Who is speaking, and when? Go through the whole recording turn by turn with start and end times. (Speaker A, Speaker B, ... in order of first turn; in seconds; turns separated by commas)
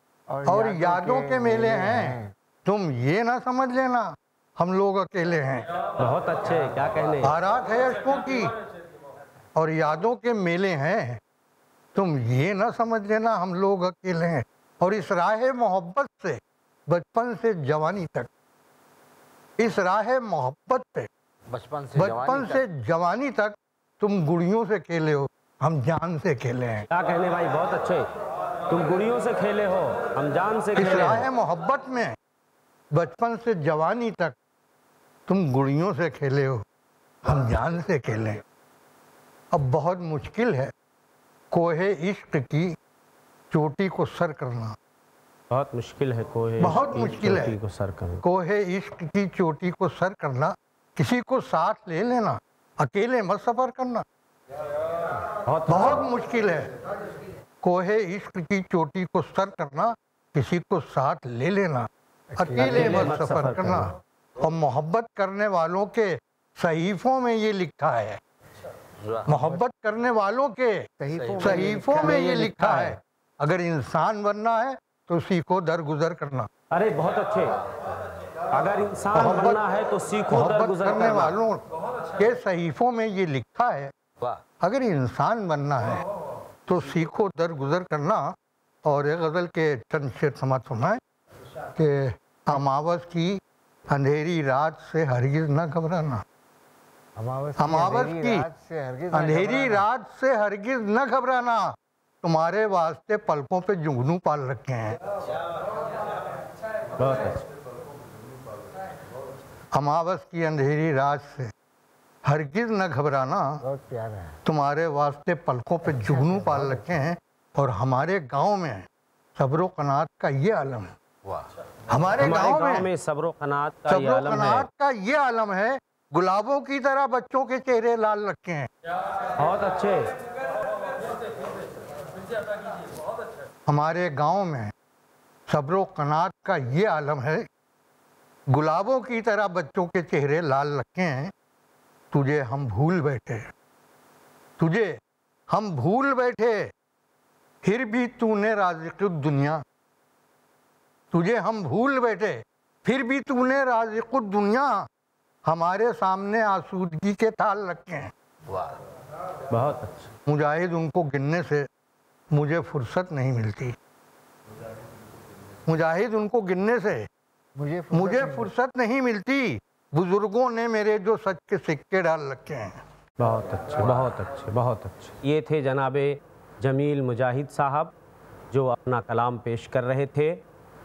Speaker A: 0.3-2.3, Speaker B: 0.5-5.7, Speaker C: 6.0-7.3, Speaker B: 7.2-8.5, Speaker B: 9.6-11.2, Speaker B: 11.9-18.3, Speaker B: 19.6-21.1, Speaker D: 21.5-22.6, Speaker B: 21.9-26.9, Speaker C: 26.9-28.1, Speaker C: 28.7-31.2, Speaker B: 30.8-32.1, Speaker B: 32.9-34.4, Speaker B: 35.3-36.6, Speaker B: 37.2-38.4, Speaker B: 39.5-40.7, Speaker B: 41.5-42.8, Speaker B: 43.5-44.8, Speaker C: 45.5-48.2, Speaker B: 46.6-47.6, Speaker B: 48.2-54.0, Speaker C: 55.4-56.0, Speaker B: 55.7-56.7, Speaker B: 57.6-68.2, Speaker A: 62.3-63.2, Speaker C: 62.5-63.9, Speaker D: 69.0-69.4, Speaker B: 69.2-70.9, Speaker A: 71.0-72.5, Speaker D: 71.2-71.7, Speaker B: 71.4-76.5, Speaker C: 72.0-73.0, Speaker C: 76.7-77.5, Speaker C: 78.5-81.4, Speaker B: 79.1-79.6, Speaker B: 80.3-81.6, Speaker B: 82.2-83.9, Speaker B: 84.6-86.0, Speaker B: 86.6-91.0, Speaker B: 91.8-96.2, Speaker A: 97.2-99.8, Speaker B: 97.6-98.4, Speaker B: 99.1-105.0, Speaker C: 107.0-107.4, Speaker B: 109.7-111.5, Speaker B: 112.2-113.6, Speaker A: 113.6-114.4, Speaker B: 114.4-120.9, Speaker A: 115.8-117.1, Speaker B: 121.9-122.9, Speaker C: 122.2-124.7, Speaker B: 123.9-128.7, Speaker C: 129.4-130.1, Speaker B: 133.7-134.7, Speaker B: 135.5-137.5, Speaker B: 138.5-141.3, Speaker B: 142.1-143.5, Speaker B: 144.6-146.7, Speaker B: 147.6-149.6, Speaker B: 151.1-154.9, Speaker B: 155.4-158.1, Speaker D: 158.5-158.7, Speaker C: 159.5-160.1, Speaker B: 160.3-161.7, Speaker B: 162.3-163.8, Speaker B: 165.7-167.1, Speaker A: 167.6-168.5, Speaker B: 167.9-172.8, Speaker C: 173.2-177.9, Speaker C: 178.5-180.4